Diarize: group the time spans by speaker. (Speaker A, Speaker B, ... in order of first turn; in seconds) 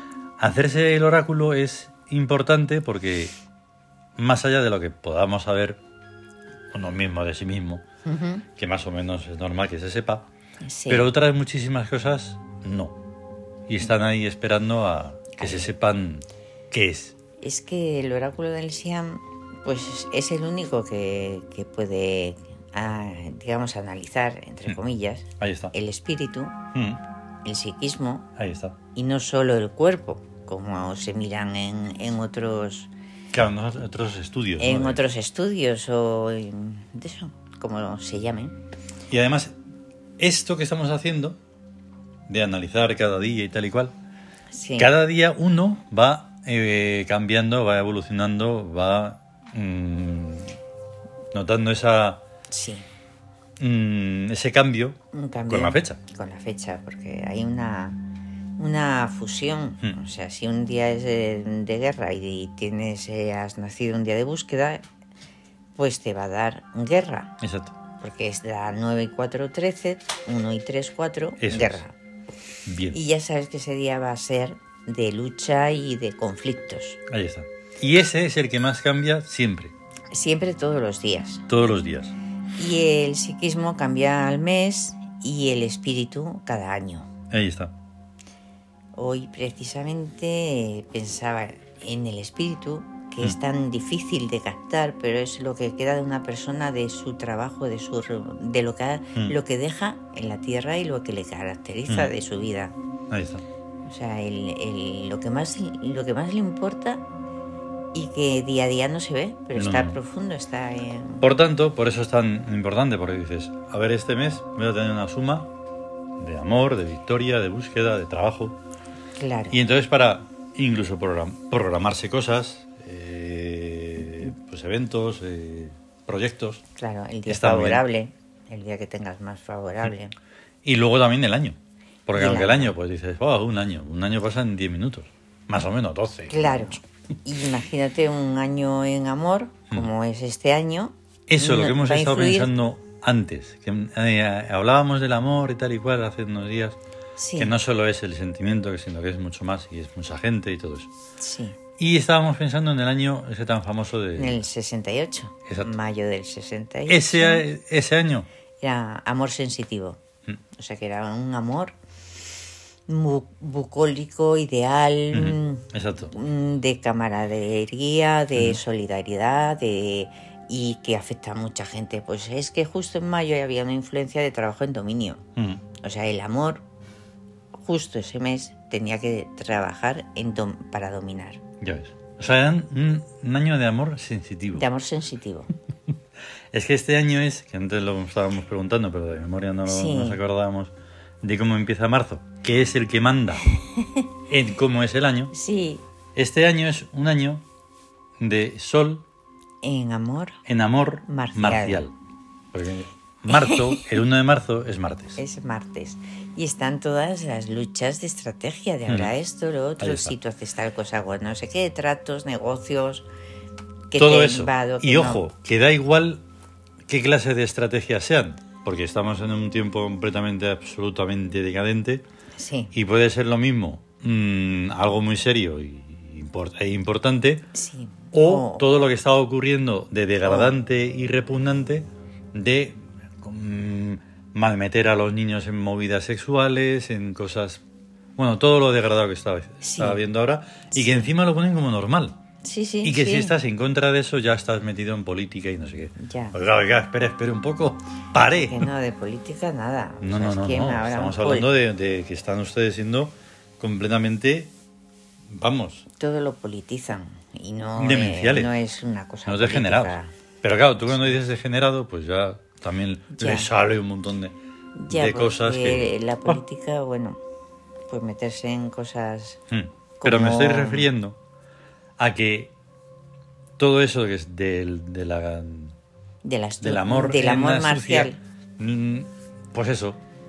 Speaker A: 0.4-3.3, 4.2-5.8, 6.7-7.8, 8.6-10.3, 10.9-12.9, 13.7-17.1, 25.4-25.7, 26.7-27.0, 28.4-28.8, 33.3-35.0, 39.1-39.5, 40.2-41.4, 42.3-43.9, 44.8-50.6, 51.3-52.2, 53.6-55.0, 55.5-56.0, 67.4-67.8, 71.4-71.8, 72.7-73.0, 77.1-79.7, 81.5-82.1, 87.3-87.7, 103.1-103.4, 109.5-110.0, 111.2-115.5, 116.2-118.6, 119.5-126.6, 127.3-127.8, 130.6-136.8, 141.3-146.8, 147.4-150.9, 151.8-154.4, 155.5-155.7, 156.9-158.3, 165.1-166.1, 168.3-168.6, 175.3-175.6, 181.6-184.7, 186.5-193.5, 194.3-195.3, 196.1-197.4, 198.2-199.1, 200.4-201.9, 202.5-205.2, 208.9-209.1, 209.8-210.1, 214.0-216.2, 216.9-222.0, 222.7-227.5, 228.1-237.6, 238.2-242.2, 242.8-248.7, 250.0-254.5, 255.3-255.8, 257.8-258.5, 259.2-264.4, 264.9-266.4, 269.5-271.1, 272.0-272.5, 273.6-275.7, 276.6-280.0
Speaker B: 8.0-8.4, 10.6-11.1, 15.4-15.7, 17.4-26.6, 27.4-28.3, 28.9-32.9, 34.6-38.6, 44.5-44.9, 52.5-52.9, 55.1-58.0, 58.6-64.8, 65.8-67.3, 68.0-71.9, 72.9-77.0, 80.1-81.5, 82.6-87.1, 89.0-102.7, 103.8-107.0, 107.9-111.2, 119.2-119.6, 126.8-130.1, 132.1-132.7, 136.3-142.5, 147.2-147.5, 151.2-151.6, 154.2-157.4, 158.6-160.0, 160.5-161.7, 162.9-175.2, 175.8-176.6, 177.6-181.4, 184.5-185.5, 189.6-190.2, 195.3-195.8, 199.6-200.4, 201.1-201.8, 203.3-203.9, 205.2-213.1, 213.9-215.2, 222.4-222.7, 227.5-228.7, 230.2-230.5, 239.6-240.0, 240.7-241.1, 242.4-243.3, 246.0-246.3, 248.3-251.5, 255.9-260.1, 263.1-263.5, 264.8-267.2, 267.9-269.4, 270.0-270.9, 276.2-278.2